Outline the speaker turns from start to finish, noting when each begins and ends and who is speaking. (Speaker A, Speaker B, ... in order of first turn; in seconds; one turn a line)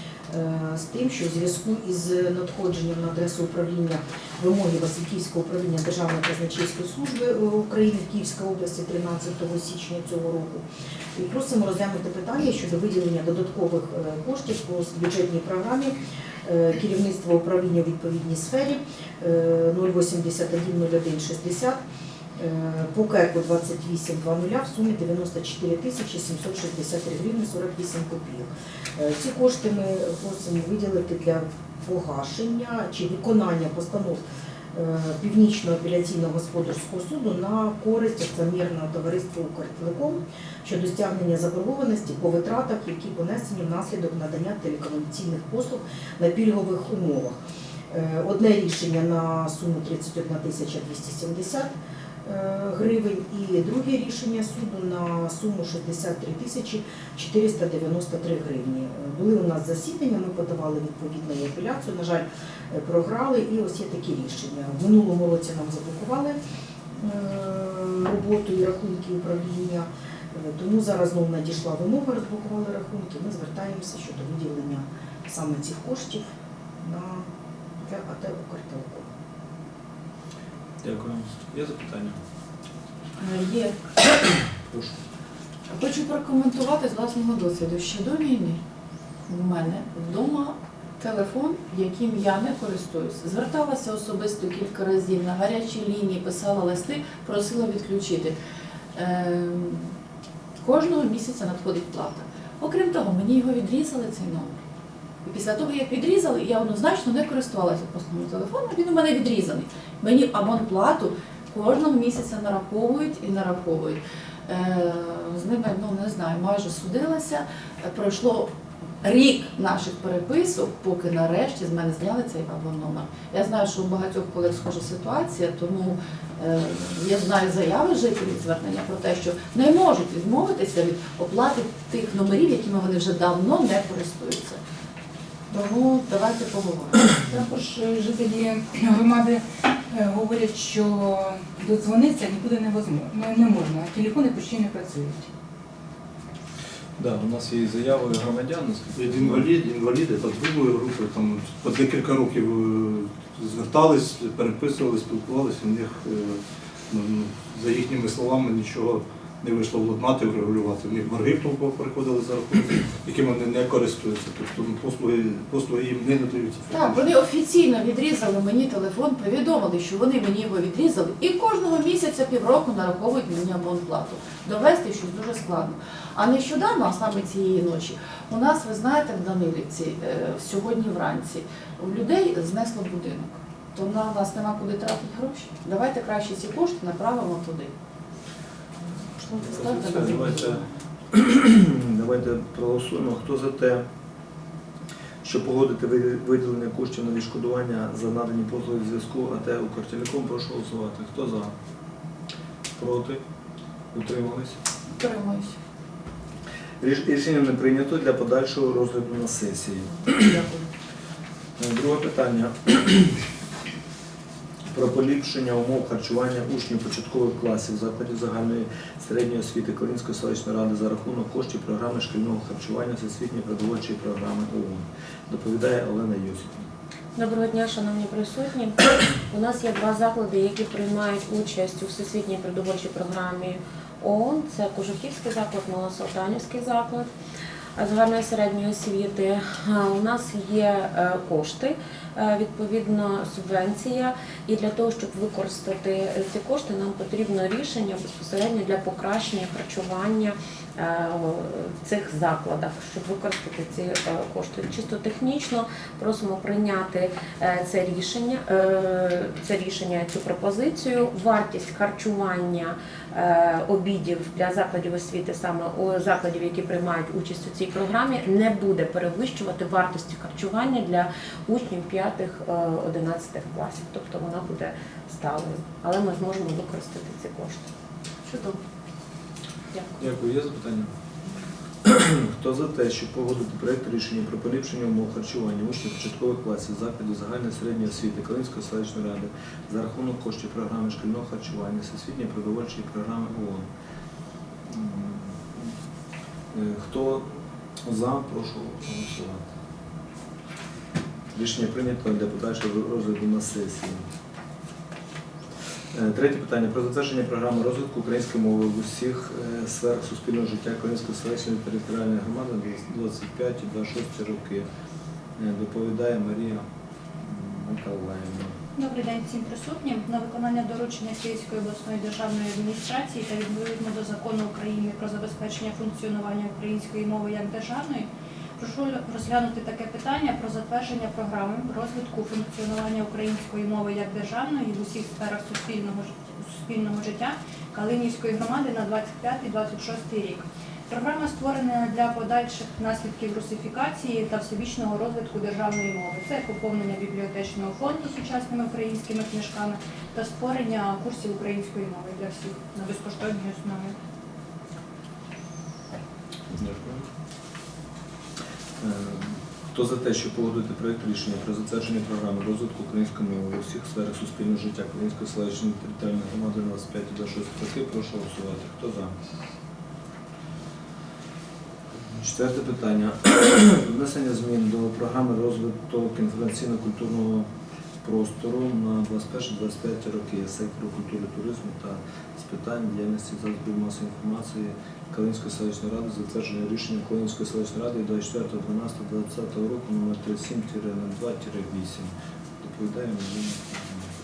Speaker A: 0.3-10.6
Speaker A: 11.1-21.8
Speaker A: 22.4-34.2
Speaker A: 34.7-47.4
Speaker A: 47.9-51.7
Speaker A: 52.2-66.4
Speaker A: 67.0-76.2
Speaker A: 76.8-77.3
Speaker A: 77.8-79.1
Speaker B: 80.8-82.2
Speaker C: 83.2-83.8
Speaker B: 84.7-85.0
Speaker C: 85.7-88.6
Speaker C: 89.3-98.3
Speaker C: 98.9-99.9
Speaker C: 100.6-104.6
Speaker C: 105.2-118.5
Speaker C: 119.0-134.6
Speaker C: 135.5-137.5
Speaker D: 137.3-145.3
Speaker B: 147.0-149.5
Speaker E: 148.9-156.4
Speaker E: 156.9-167.1
Speaker C: 166.7-187.7
Speaker C: 189.2-190.7
Speaker B: 189.3-190.6
Speaker B: 191.1-193.8
Speaker B: 195.2-201.5
Speaker B: 202.8-203.2
Speaker B: 203.9-204.6
Speaker C: 204.9-205.5
Speaker B: 206.8-210.3
Speaker C: 210.1-210.7
Speaker B: 211.6-213.2
Speaker B: 214.7-226.7
Speaker F: 227.2-237.1
Speaker F: 237.8-277.6
Speaker C: 278.3-278.6
Speaker B: 280.0-280.9
Speaker B: 281.8-293.7
Speaker B: 294.6-295.7
Speaker B: 296.5-297.3
Speaker B: 297.9-299.4
Speaker B: 301.3-304.0
Speaker B: 305.9-314.6
Speaker B: 315.4-316.6
Speaker B: 317.2-318.5
Speaker G: 318.7-328.1
Speaker G: 328.6-353.9
Speaker B: 356.5-357.1
Speaker B: 358.8-369.1
Speaker B: 372.1-377.4
Speaker B: 378.0-394.1